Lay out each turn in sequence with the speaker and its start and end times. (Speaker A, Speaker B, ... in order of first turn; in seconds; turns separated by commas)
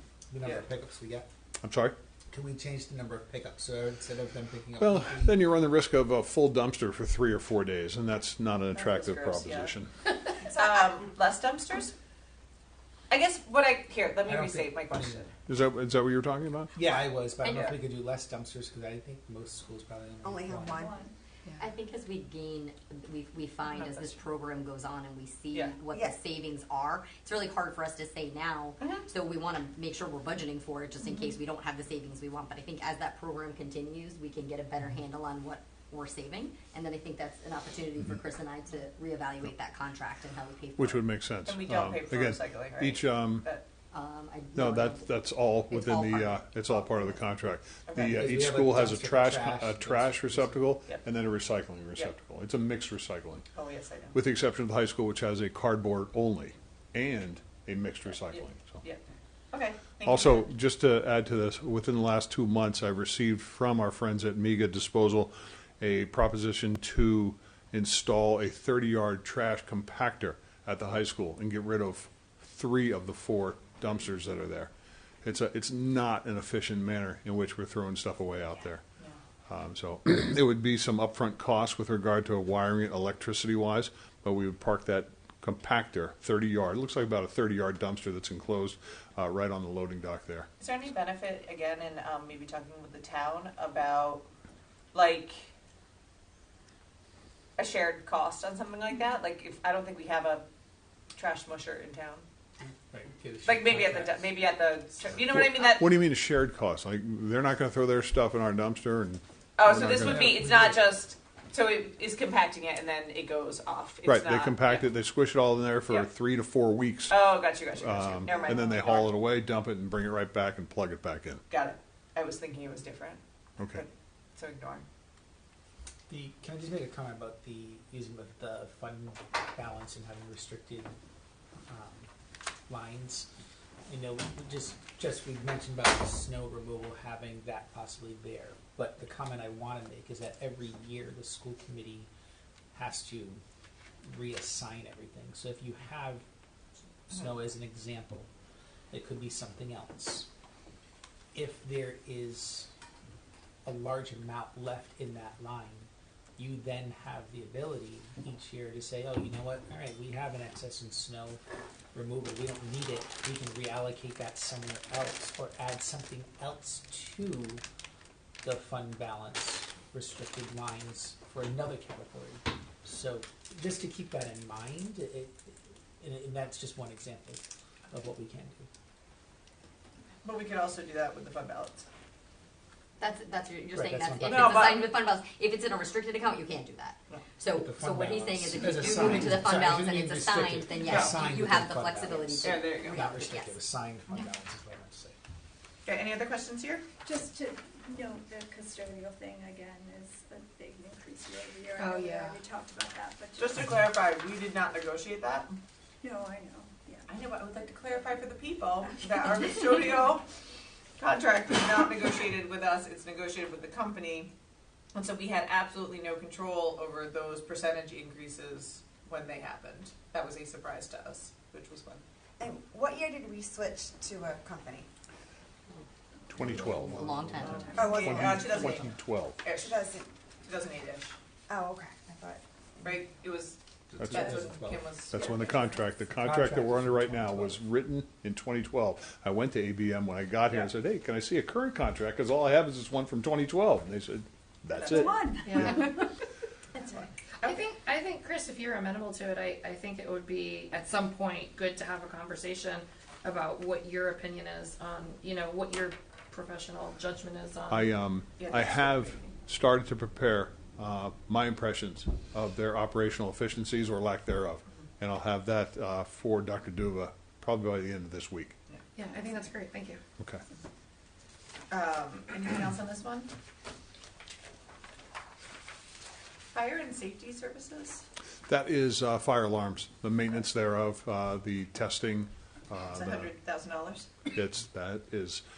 Speaker A: 0.3-1.3, Speaker B: 0.4-0.7, Speaker C: 1.6-1.9, Speaker A: 2.3-5.4, Speaker C: 4.8-9.9, Speaker B: 8.7-9.7, Speaker D: 10.5-10.8, Speaker B: 10.5-11.9, Speaker B: 13.1-15.3, Speaker A: 14.2-15.2, Speaker C: 15.5-16.7, Speaker A: 16.7-20.8, Speaker E: 17.4-17.7, Speaker D: 20.2-21.0, Speaker F: 20.8-21.1, Speaker E: 21.6-41.1, Speaker B: 23.7-24.2, Speaker D: 25.9-26.2, Speaker B: 28.8-29.1, Speaker C: 40.8-43.5, Speaker B: 41.4-43.6, Speaker E: 43.9-47.2, Speaker C: 44.5-53.4, Speaker B: 47.9-48.3, Speaker A: 48.0-50.6, Speaker B: 53.5-54.2, Speaker C: 54.1-58.8, Speaker B: 58.3-60.5, Speaker C: 60.0-74.7, Speaker C: 75.2-78.8, Speaker C: 79.5-90.5, Speaker B: 90.6-94.2, Speaker B: 94.9-95.5, Speaker B: 97.6-100.5, Speaker B: 101.1-102.2, Speaker A: 102.6-104.3, Speaker B: 103.4-106.0, Speaker C: 105.2-110.7, Speaker B: 109.6-114.9, Speaker A: 109.9-110.7, Speaker C: 114.0-121.4, Speaker B: 117.1-119.1, Speaker B: 121.5-124.8, Speaker C: 123.6-123.8, Speaker A: 126.1-130.9, Speaker A: 131.7-132.1, Speaker A: 132.7-133.3, Speaker A: 133.9-142.1, Speaker A: 142.7-143.4, Speaker A: 144.0-146.2, Speaker A: 147.1-148.3, Speaker A: 148.9-150.3, Speaker A: 151.3-152.7, Speaker A: 153.6-161.4, Speaker A: 161.9-167.6, Speaker A: 168.4-178.7, Speaker B: 180.2-181.8, Speaker E: 183.0-193.6, Speaker A: 183.7-184.7, Speaker B: 184.2-184.9, Speaker A: 187.5-195.2, Speaker B: 190.8-191.2, Speaker B: 192.4-193.1, Speaker B: 195.8-196.8, Speaker F: 197.0-203.6, Speaker G: 201.8-202.4, Speaker B: 203.4-205.6, Speaker F: 206.0-207.1, Speaker B: 207.1-210.2, Speaker B: 211.0-214.3, Speaker B: 214.9-222.0, Speaker D: 222.4-224.9, Speaker C: 226.3-227.1, Speaker A: 226.4-227.7, Speaker E: 226.9-227.7, Speaker B: 227.4-229.8, Speaker D: 227.7-228.7, Speaker C: 227.9-229.4, Speaker D: 229.5-230.1, Speaker B: 230.4-231.1, Speaker D: 231.5-233.0, Speaker B: 232.8-235.4, Speaker C: 234.0-234.4, Speaker A: 234.0-234.9, Speaker C: 235.1-245.8, Speaker F: 235.2-235.6, Speaker A: 236.1-237.6, Speaker B: 244.8-246.1, Speaker F: 245.1-245.4, Speaker G: 245.4-245.8, Speaker B: 246.8-247.6, Speaker G: 247.4-258.0, Speaker C: 257.7-268.5, Speaker B: 258.4-259.1, Speaker G: 268.9-270.0, Speaker B: 271.7-273.3, Speaker B: 276.5-278.0, Speaker C: 278.5-283.3, Speaker B: 282.8-284.1, Speaker C: 284.3-285.4